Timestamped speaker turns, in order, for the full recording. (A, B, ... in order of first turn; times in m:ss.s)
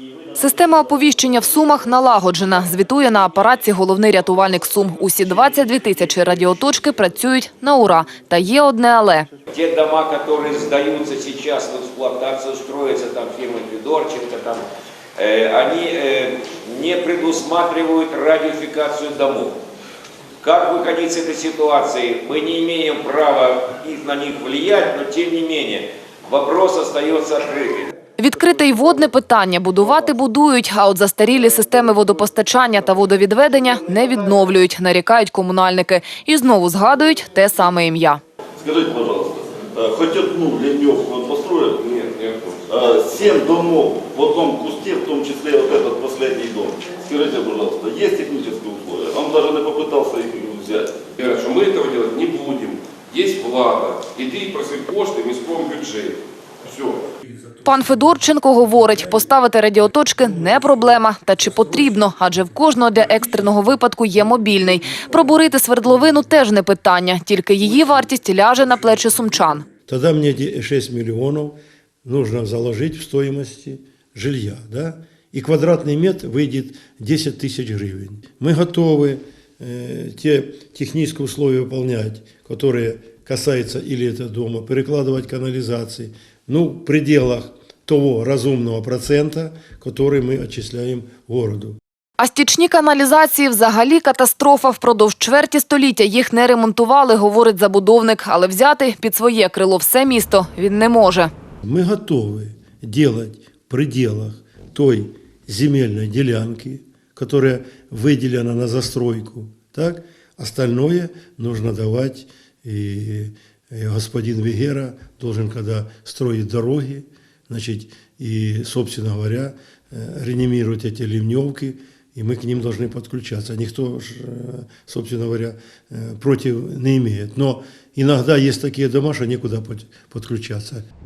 0:00.3-0:09.3 A
0:09.5-0:14.6 B
0:15.2-0:19.6 B
0:20.4-0:27.9 B
0:28.2-0:38.2 A
0:38.6-0:41.8 C
0:41.8-0:42.6 D
0:42.7-0:51.1 C
0:51.2-0:57.0 D
0:57.6-1:09.6 A
1:09.8-1:31.8 E
1:32.2-1:41.3 A
1:41.6-2:10.8 E